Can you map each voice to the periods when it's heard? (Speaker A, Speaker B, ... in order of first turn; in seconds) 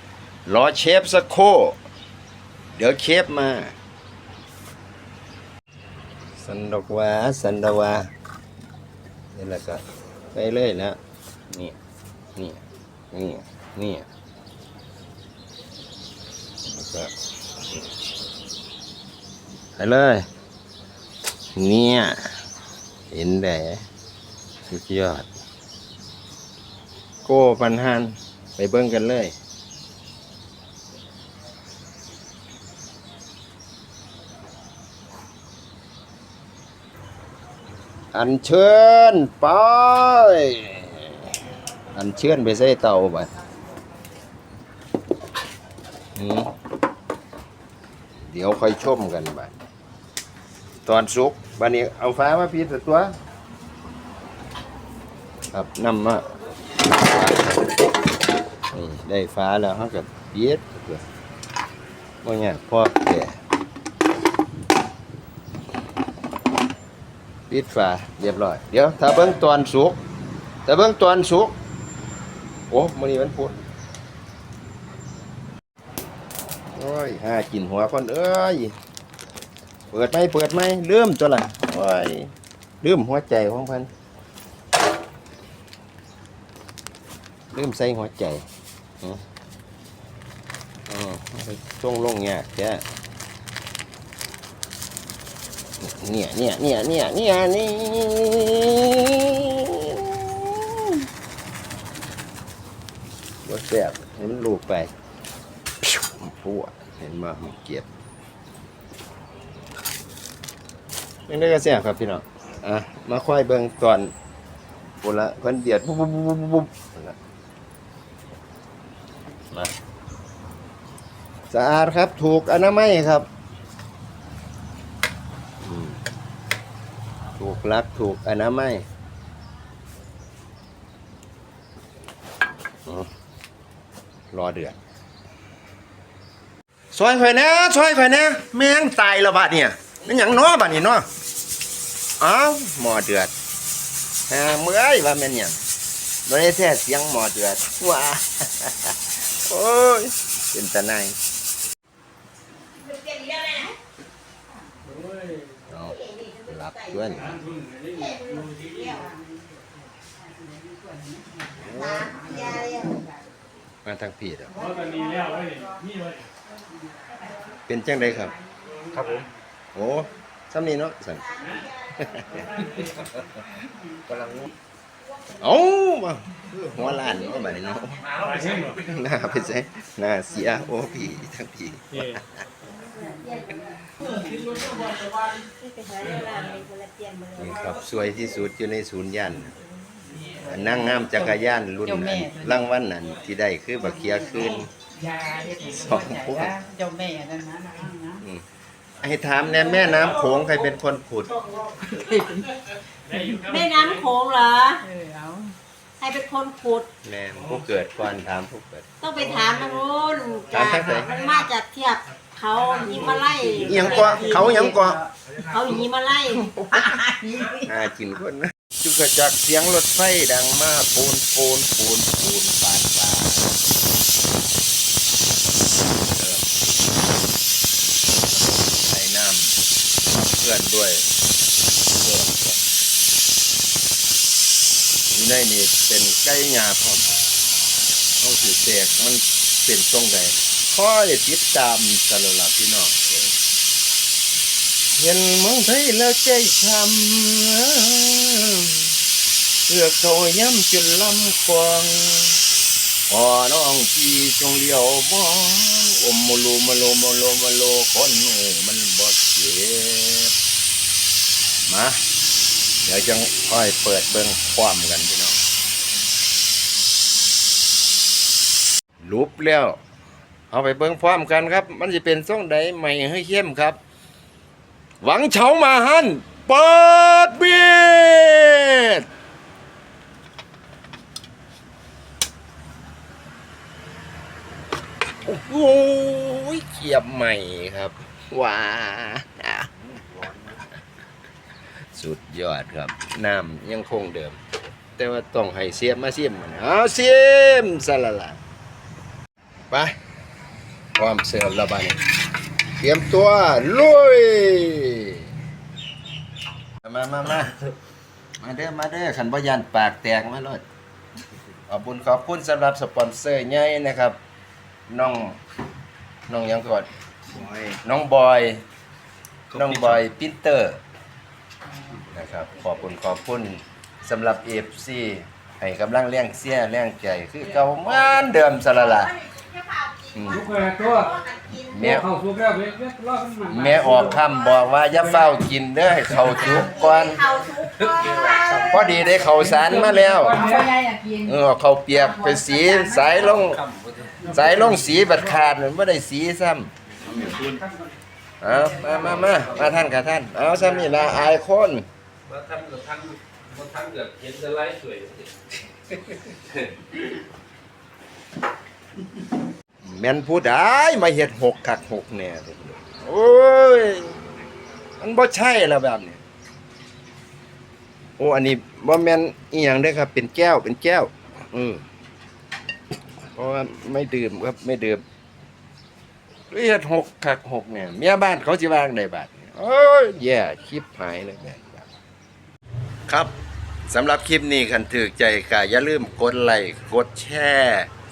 Speaker A: 0.5-1.8, 2.8-3.7, 6.3-8.1, 9.3-11.0, 11.5-11.8, 12.4-12.6, 13.1-14.1, 16.6-17.1, 19.8-20.3, 21.6-22.3, 23.1-23.9, 24.7-25.3, 27.2-29.4, 38.1-41.3, 42.0-43.3, 46.2-46.5, 48.2-49.5, 50.9-53.2, 55.5-56.3, 56.8-57.7, 58.7-61.0, 62.2-63.4, 67.5-70.0, 70.7-71.6, 72.7-73.6, 76.8-78.8, 79.9-83.9, 87.5-88.5, 90.9-92.8, 95.8-101.0, 103.5-104.9, 105.8-107.9, 111.3-114.1, 115.0-117.2, 121.5-123.3, 125.6-126.0, 127.4-128.8, 134.3-134.8, 136.9-141.1, 142.2-143.3, 144.3-145.6, 146.3-151.2, 155.7-157.4, 161.6-162.1, 163.8-164.6, 167.7-168.3, 169.0-169.2, 169.8-171.4, 171.9-173.3, 174.1-174.5, 175.4-178.1, 178.6-182.3, 187.4-189.5, 190.4-194.7, 195.7-196.6, 199.0-201.4, 207.0-208.9, 210.5-211.1, 213.6-215.0, 216.3-223.6, 226.0-226.7, 228.8-229.6, 230.1-231.1, 231.9-232.6, 235.1-237.1, 238.2-243.3, 245.0-248.9, 249.7-252.4, 253.1-260.3, 261.7-262.0, 262.8-265.4, 269.0-269.8, 270.5-273.8, 275.0-279.0, 285.2-289.7, 291.9-294.4, 295.0-298.4, 299.7-300.0, 301.0-302.0, 302.8-305.2, 306.8-307.6, 308.4-310.6, 311.7-314.2, 314.9-315.4, 316.3-316.9, 317.7-318.6, 319.5-320.8, 322.0-329.2, 330.1-330.5, 331.6-332.1, 333.5-337.4, 338.6-340.6, 341.2-343.6, 344.3-346.7, 348.4-351.9, 359.8-364.2, 365.0-366.2, 368.2-371.9, 373.3-375.0, 376.5-381.9, 383.1-383.3, 383.9-387.9
Speaker B: 152.8-153.8, 156.0-156.5, 157.9-159.2, 161.8-163.0, 171.4-171.7, 182.9-183.8, 185.4-187.7, 203.4-204.8, 206.0-206.9, 209.0-214.7, 215.4-216.5, 329.0-331.8, 336.6-339.1, 340.5-341.0
Speaker C: 159.1-159.4, 160.6-161.3, 162.1-162.4, 164.6-165.8, 184.4-184.7, 191.9-192.3, 195.0-198.2, 202.1-202.4, 204.9-205.6, 214.2-214.9, 217.0-217.5, 340.6-341.0
Speaker D: 178.2-178.6, 317.3-317.7, 337.7-338.9, 343.0-344.2, 347.0-347.6, 352.3-355.4
Speaker E: 330.6-330.9, 332.1-333.8